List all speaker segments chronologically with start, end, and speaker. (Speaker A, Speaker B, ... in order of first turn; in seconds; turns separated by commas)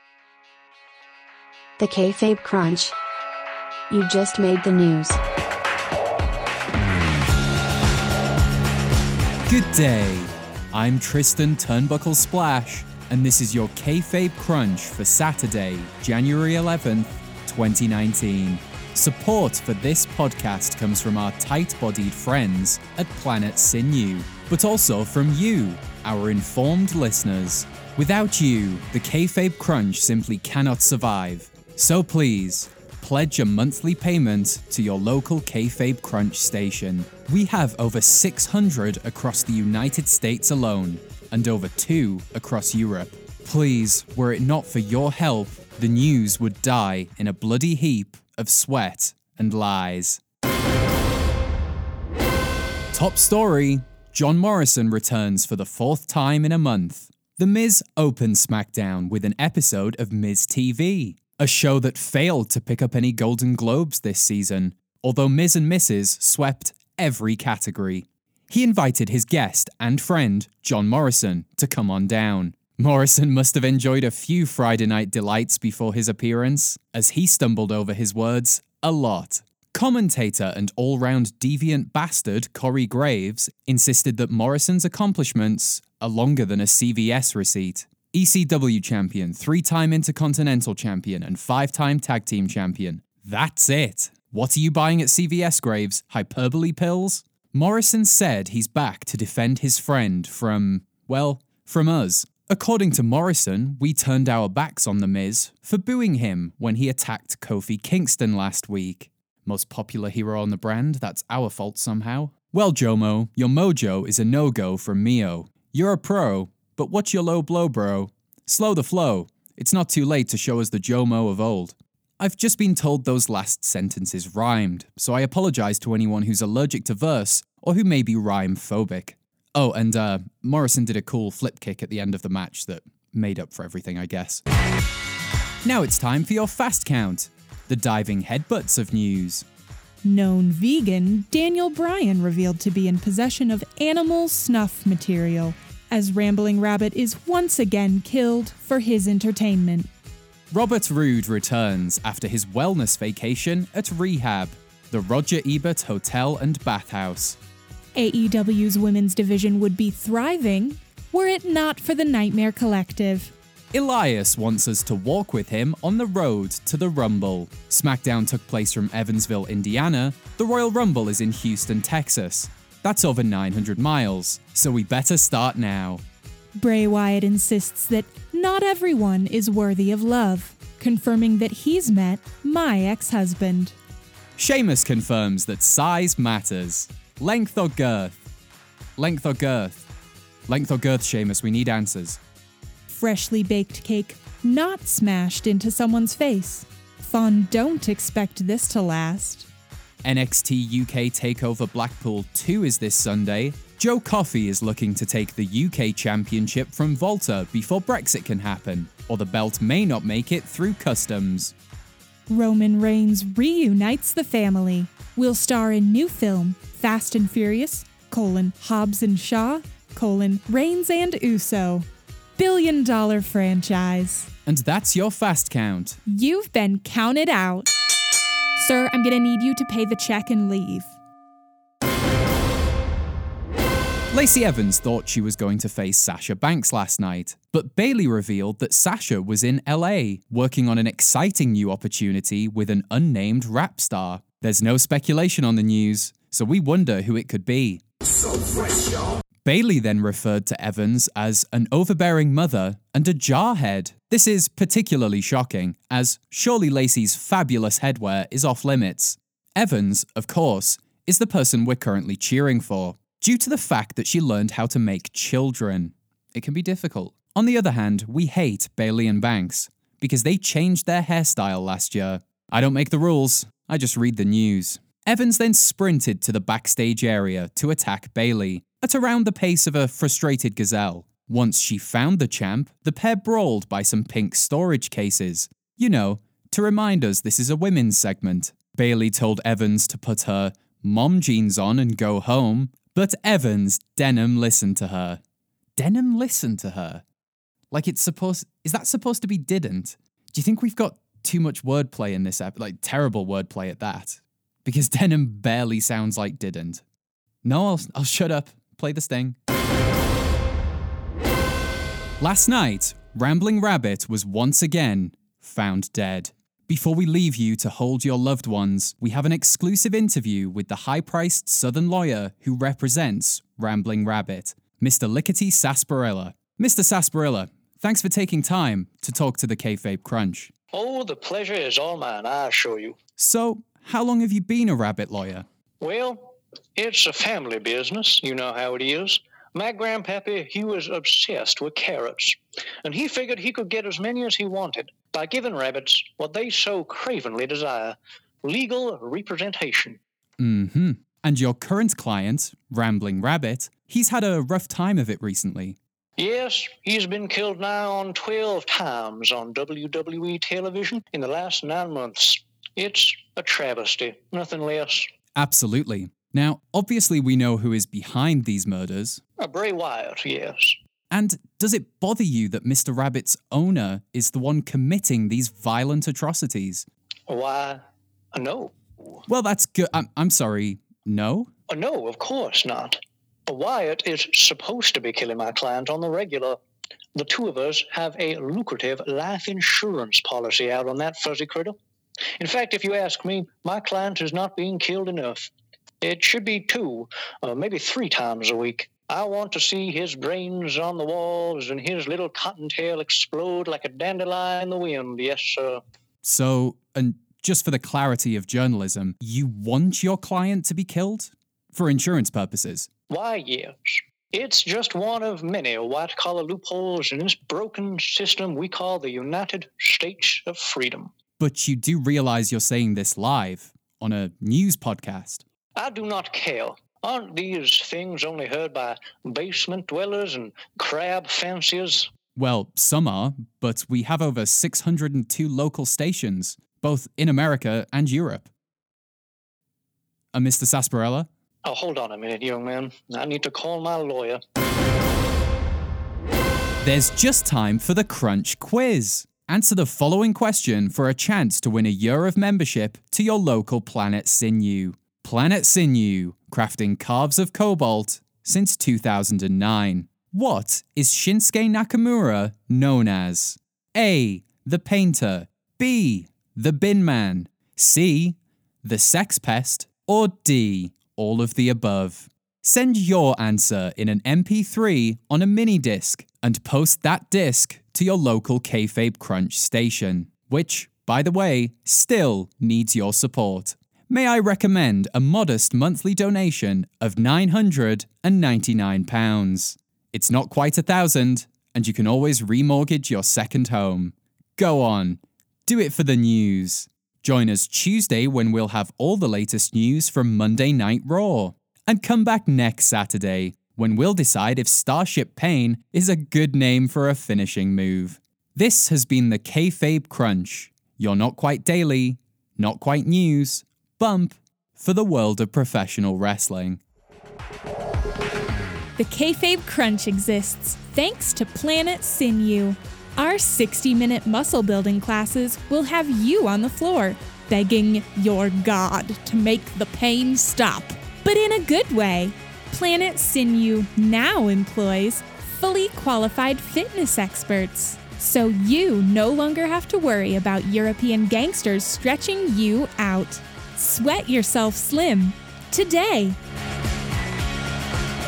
Speaker A: 1.8-3.0, Speaker A: 3.9-5.2, Speaker B: 9.5-50.2, Speaker B: 52.9-134.4, Speaker B: 135.7-139.5, Speaker C: 140.0-149.9, Speaker B: 150.5-157.4, Speaker C: 157.9-163.3, Speaker B: 163.7-176.0, Speaker C: 176.6-183.8, Speaker B: 184.4-188.2, Speaker B: 189.0-189.8, Speaker B: 190.5-192.2, Speaker C: 192.9-199.5, Speaker B: 200.0-211.6, Speaker C: 212.3-221.9, Speaker C: 222.4-224.3, Speaker B: 224.5-226.0, Speaker C: 226.1-227.7, Speaker C: 228.6-231.0, Speaker B: 234.1-247.8, Speaker B: 249.4-295.2, Speaker B: 295.8-297.0, Speaker B: 297.7-306.8, Speaker B: 307.4-309.4, Speaker B: 312.2-330.5, Speaker D: 330.7-333.0, Speaker B: 333.2-335.4, Speaker D: 335.8-350.0, Speaker B: 350.4-355.8, Speaker D: 356.2-365.1, Speaker B: 365.4-369.2, Speaker D: 369.4-370.8, Speaker B: 371.1-376.9, Speaker D: 377.3-377.8, Speaker D: 378.3-378.8, Speaker B: 379.3-381.5, Speaker D: 381.7-386.6, Speaker D: 387.1-391.8, Speaker D: 392.4-395.5, Speaker D: 396.0-405.8, Speaker B: 406.2-412.9, Speaker D: 413.1-421.1, Speaker B: 421.4-425.4, Speaker D: 425.8-432.1, Speaker B: 432.4-438.5, Speaker B: 440.3-441.3, Speaker D: 441.6-444.4, Speaker B: 446.8-516.8, Speaker C: 519.0-546.4